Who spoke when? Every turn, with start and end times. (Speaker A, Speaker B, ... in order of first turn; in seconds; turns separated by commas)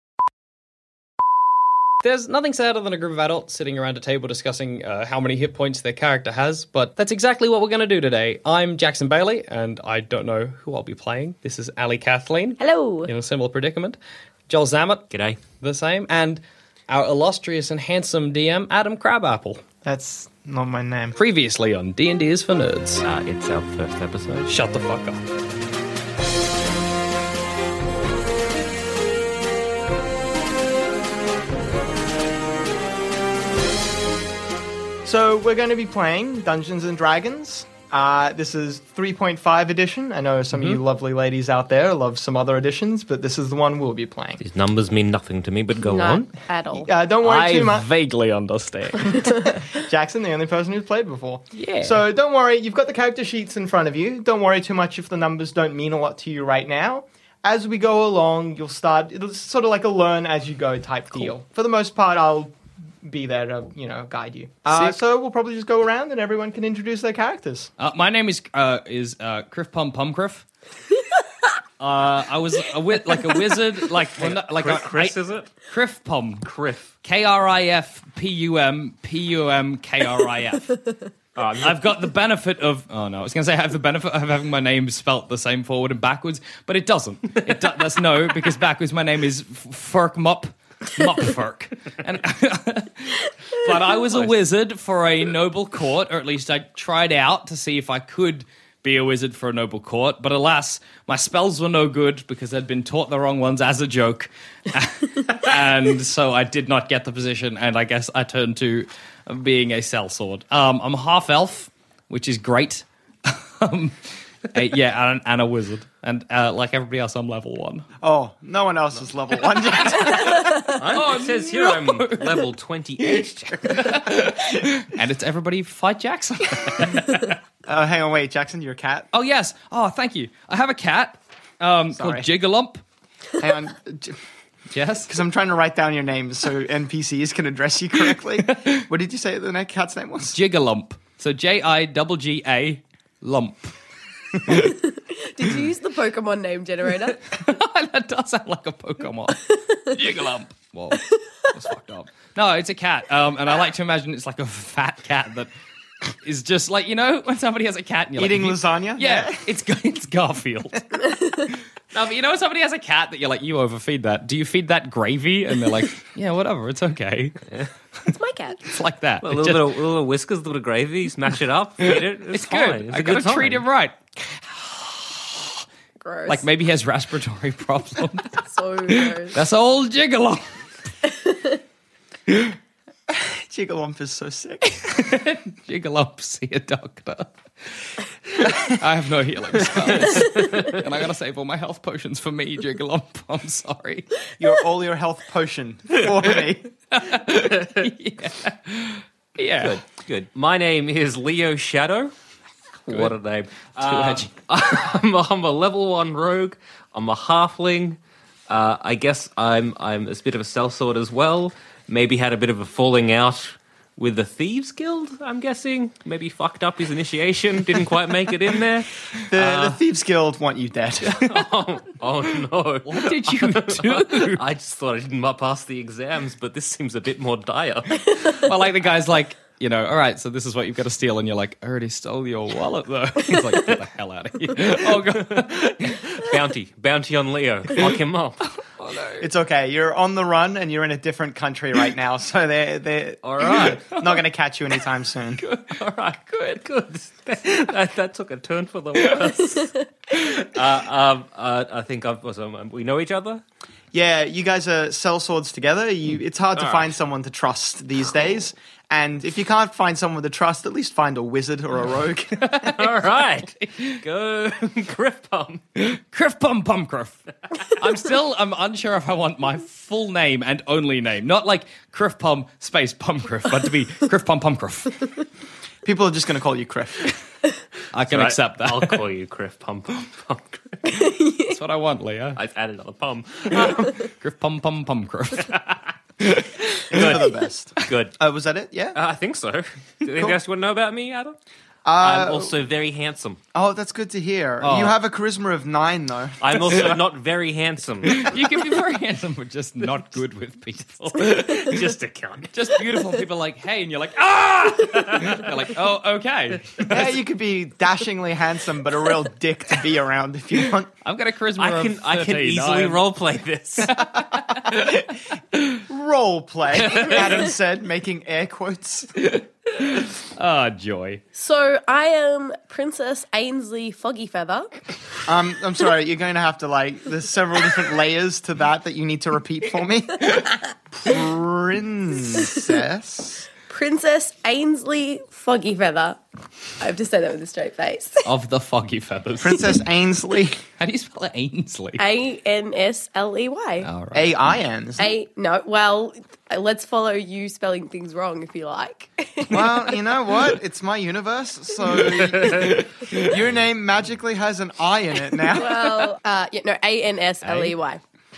Speaker A: 2.0-14.0, Speaker B: 12.6-13.1, Speaker A: 14.5-15.1, Speaker C: 15.1-15.4, Speaker A: 15.6-19.6, Speaker D: 19.9-21.2, Speaker A: 21.2-23.0, Speaker C: 23.0-24.5, Speaker A: 24.5-25.2, Speaker D: 35.0-44.4, Speaker A: 40.5-40.8, Speaker C: 44.4-46.3, Speaker B: 45.8-46.9, Speaker D: 46.7-47.9, Speaker A: 47.2-49.3, Speaker D: 49.5-67.7, Speaker A: 51.5-52.0, Speaker A: 67.8-70.5, Speaker A: 71.8-75.2, Speaker C: 74.2-75.5, Speaker A: 75.7-76.5, Speaker C: 76.5-76.9, Speaker A: 77.0-80.8, Speaker C: 81.4-81.8, Speaker A: 81.6-117.9, Speaker D: 118.0-120.5, Speaker C: 120.6-124.1, Speaker A: 120.7-122.5, Speaker A: 123.7-127.3, Speaker D: 127.7-129.1, Speaker A: 129.1-132.8, Speaker D: 131.9-132.3, Speaker D: 133.4-134.2, Speaker A: 134.7-135.1, Speaker D: 135.1-140.4, Speaker A: 138.5-138.8, Speaker A: 140.3-143.7, Speaker A: 144.4-144.8, Speaker B: 144.7-147.2, Speaker A: 147.3-155.5, Speaker A: 156.0-161.0, Speaker D: 158.2-159.4, Speaker B: 161.1-161.4, Speaker A: 161.9-167.4, Speaker B: 168.1-168.6, Speaker A: 168.7-169.7, Speaker C: 169.2-173.7, Speaker A: 171.8-175.6, Speaker B: 176.0-176.5, Speaker A: 176.3-180.5, Speaker B: 178.4-179.4, Speaker B: 181.1-181.6, Speaker A: 182.3-182.6, Speaker D: 183.1-184.6, Speaker A: 184.7-187.3, Speaker A: 188.4-194.1, Speaker D: 194.4-196.7, Speaker A: 196.9-199.8, Speaker C: 199.6-202.1, Speaker C: 202.9-219.8, Speaker A: 202.9-203.2, Speaker A: 203.8-204.3, Speaker D: 219.3-221.3, Speaker C: 221.1-228.2, Speaker A: 222.8-224.4, Speaker A: 228.5-236.1, Speaker C: 235.1-238.5, Speaker A: 238.8-239.3, Speaker D: 239.2-245.4, Speaker A: 243.3-244.1, Speaker C: 243.4-243.8, Speaker A: 245.4-246.6, Speaker C: 245.8-249.6, Speaker A: 249.0-249.6, Speaker B: 249.6-249.9, Speaker C: 250.3-253.4, Speaker D: 253.9-262.7, Speaker C: 256.6-256.9, Speaker A: 262.5-262.7, Speaker C: 262.8-265.6, Speaker A: 263.6-264.0, Speaker A: 265.8-267.2, Speaker A: 267.8-275.0, Speaker D: 275.9-277.1, Speaker A: 277.9-279.0, Speaker C: 278.1-280.9, Speaker B: 280.9-281.6, Speaker A: 281.5-282.4, Speaker C: 282.4-284.0, Speaker A: 284.1-285.6, Speaker A: 286.2-286.8, Speaker D: 286.9-289.0, Speaker C: 286.9-288.2, Speaker C: 288.9-291.4, Speaker D: 291.9-292.6, Speaker C: 292.0-293.4, Speaker D: 293.5-296.8, Speaker A: 294.6-295.0, Speaker C: 296.4-298.3, Speaker A: 298.1-301.8, Speaker C: 301.5-302.5, Speaker A: 302.5-306.9, Speaker D: 306.9-310.9, Speaker A: 311.0-313.0, Speaker C: 311.6-314.0, Speaker A: 313.9-314.9, Speaker D: 314.3-315.1, Speaker A: 315.5-315.8, Speaker D: 315.9-319.1, Speaker A: 319.2-321.2, Speaker B: 321.4-324.7, Speaker D: 325.3-333.5, Speaker B: 332.4-332.6, Speaker B: 333.7-336.2, Speaker B: 336.8-338.3, Speaker A: 338.2-339.8, Speaker D: 339.4-340.6, Speaker A: 340.8-342.0, Speaker B: 342.0-343.9, Speaker A: 343.8-344.3, Speaker D: 344.1-345.1, Speaker B: 345.0-350.0, Speaker D: 349.5-356.1, Speaker A: 352.6-353.4, Speaker B: 355.5-358.0